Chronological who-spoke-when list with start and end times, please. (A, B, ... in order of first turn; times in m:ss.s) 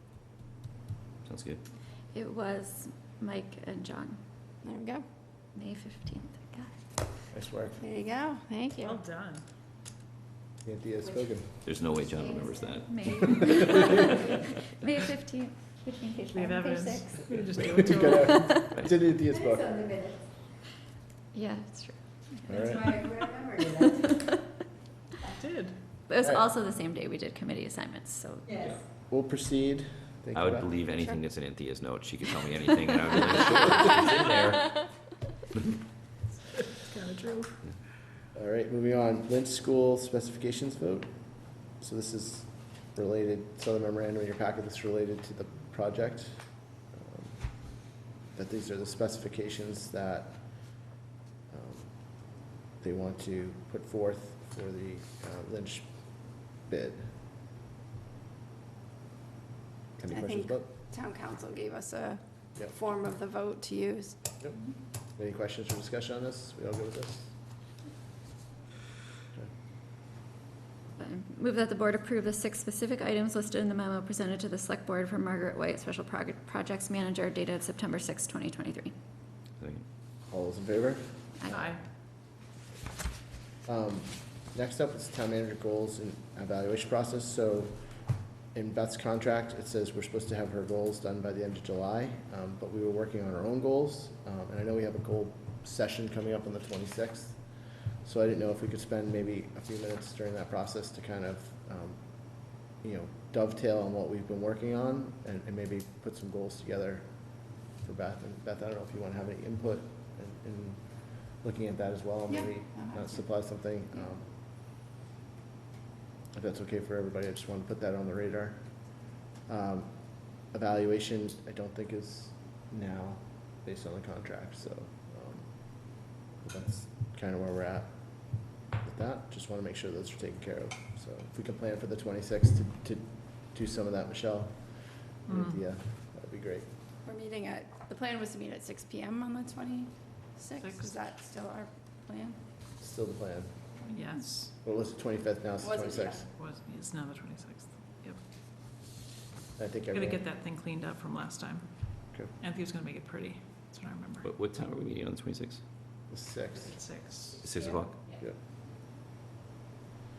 0:01.2-0:01.6 A
0:02.1-0:04.2 B
0:04.6-0:05.0 C
0:05.5-0:06.7 B
0:07.3-0:07.8 D
0:07.8-0:09.0 C
0:08.8-0:09.4 E
0:10.6-0:11.6 D
0:11.6-0:14.4 A
0:12.9-0:14.1 B
0:14.7-0:17.5 B
0:16.3-0:18.6 E
0:17.8-0:20.0 D
0:18.2-0:18.6 B
0:21.3-0:22.6 B
0:22.5-0:22.9 D
0:23.8-0:24.4 B
0:25.2-0:25.8 E
0:26.1-0:28.6 B
0:29.1-0:30.7 D
0:30.3-0:34.9 A
0:36.7-0:37.7 E
0:38.3-0:51.0 D
0:51.5-0:57.2 D
1:00.0-1:00.7 D
1:00.1-1:04.2 C
1:04.4-1:07.4 D
1:11.0-1:18.9 B
1:19.6-1:19.9 A
1:20.3-1:21.8 D
1:21.4-1:21.7 B
1:21.5-1:21.8 E
1:23.6-1:54.3 D
1:52.3-1:53.2 C
1:56.3-2:16.7 D
2:15.3-2:15.6 E
2:17.0-2:22.4 C
2:20.6-2:20.9 E
2:22.8-2:23.8 D
2:23.9-2:24.5 E
2:24.6-2:26.3 D
2:25.6-2:26.2 C
2:26.4-2:28.2 E
2:29.6-2:30.2 D
2:29.9-2:34.3 E
2:34.2-2:35.6 A
2:36.1-2:37.4 D
2:36.6-2:37.4 E
2:37.4-2:38.0 A